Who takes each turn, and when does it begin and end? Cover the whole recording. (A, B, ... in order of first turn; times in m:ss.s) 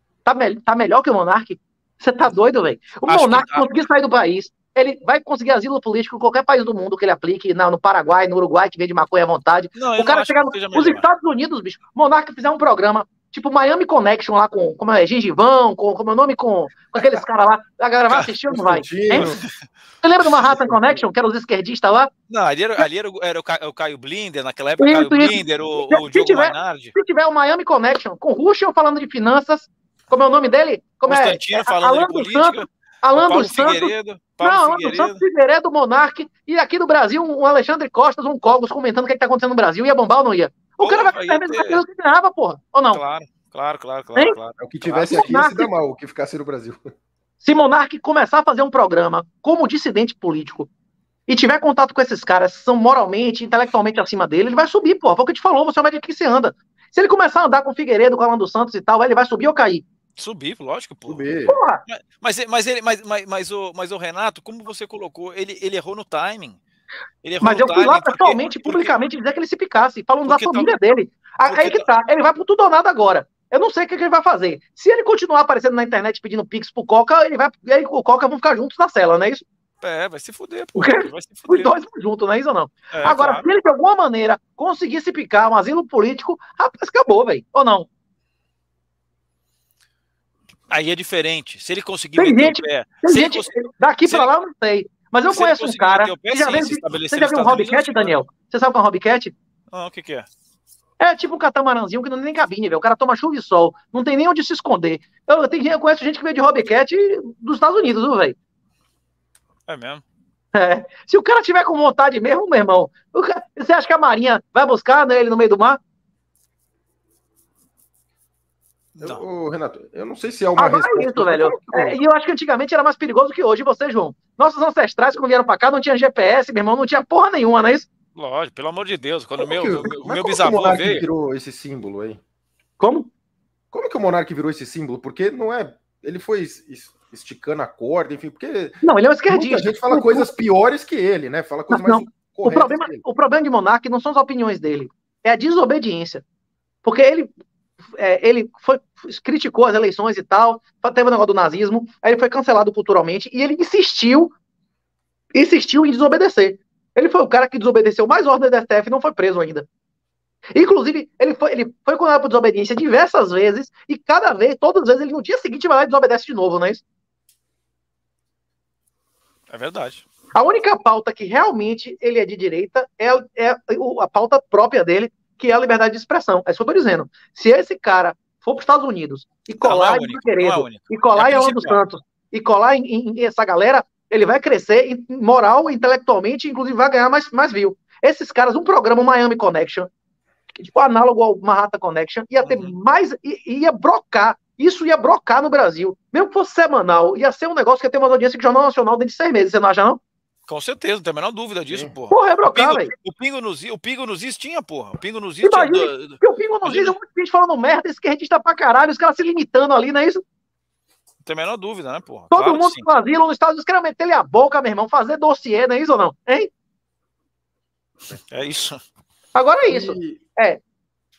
0:00.2-0:19.3 A
0:03.0-0:03.7 B
0:09.8-0:11.0 B
0:18.5-0:19.4 C
0:19.1-0:19.5 B
0:20.0-0:22.1 A
0:20.6-0:21.0 C
0:22.3-0:26.9 B
0:24.8-0:43.0 A
0:31.0-0:35.2 B
0:40.8-0:41.8 B
0:42.9-0:45.3 B
0:44.6-0:46.8 C
0:45.1-0:45.7 A
0:47.4-0:50.7 A
0:51.3-0:59.8 A
1:00.2-1:01.3 B
1:01.1-1:01.6 C
1:01.5-1:01.8 A
1:01.9-1:06.6 B
1:07.2-1:08.9 B
1:07.4-1:19.4 A
1:10.2-1:10.7 B
1:11.4-1:11.9 B
1:19.8-1:21.7 B
1:20.8-1:27.9 A
1:22.9-1:23.4 B
1:30.7-1:34.3 B
1:32.2-1:39.3 A
1:35.3-1:38.2 B
1:39.7-1:40.3 B
1:41.0-1:48.4 A
1:49.7-1:50.0 B
1:50.5-1:55.8 A
1:59.0-1:59.2 B
1:59.0-2:02.0 C
2:00.6-2:07.9 A
2:08.1-2:11.0 B
2:09.4-2:12.2 C
2:12.8-2:13.1 A
2:13.7-2:23.0 C
2:18.8-2:20.3 A
2:21.7-2:26.2 A
2:26.8-2:27.3 A
2:28.0-2:34.3 A
2:35.3-2:39.7 A
2:40.5-2:46.8 A
2:49.5-2:50.0 B
2:50.3-3:09.9 A
2:59.6-3:01.8 B
3:10.6-3:20.0 A
3:12.4-3:12.7 B
3:20.5-3:27.0 B
3:22.1-3:22.9 A
3:25.4-3:30.2 A
3:31.2-3:32.8 B
3:32.3-3:36.5 A
3:38.3-3:38.8 B
3:39.3-3:40.6 A
3:39.6-3:40.2 C